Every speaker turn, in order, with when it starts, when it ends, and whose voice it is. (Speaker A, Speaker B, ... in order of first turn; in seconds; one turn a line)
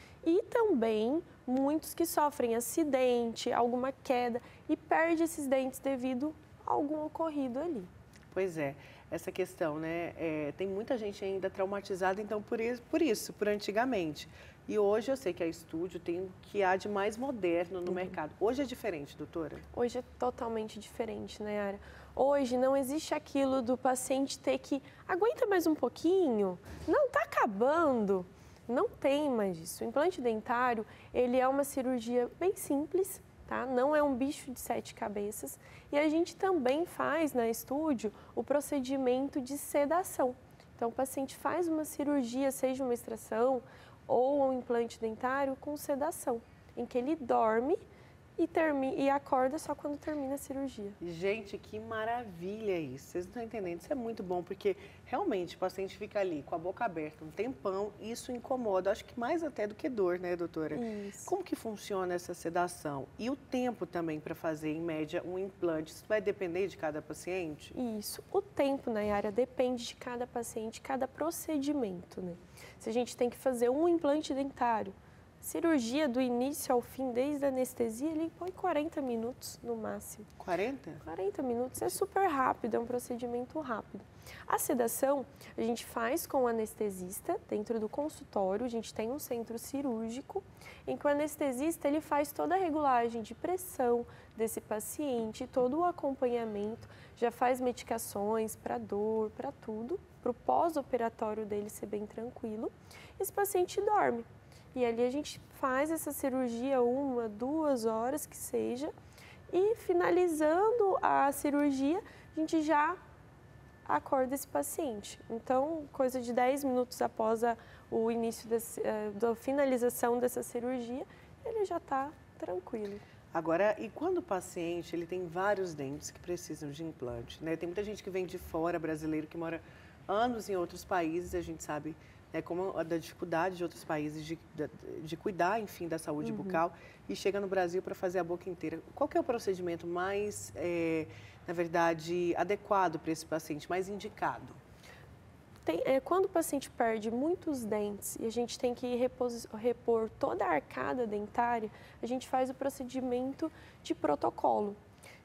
Speaker A: 0.2-7.9
Speaker B: 8.3-19.6
Speaker A: 17.9-18.1
Speaker A: 19.7-47.8
Speaker A: 48.4-51.0
Speaker B: 51.0-67.8
Speaker A: 60.7-61.3
Speaker A: 67.7-80.3
Speaker B: 80.4-81.0
Speaker A: 81.0-108.9
Speaker A: 109.5-113.0
Speaker A: 113.8-123.0
Speaker B: 123.3-144.6
Speaker A: 136.2-136.6
Speaker A: 145.7-154.8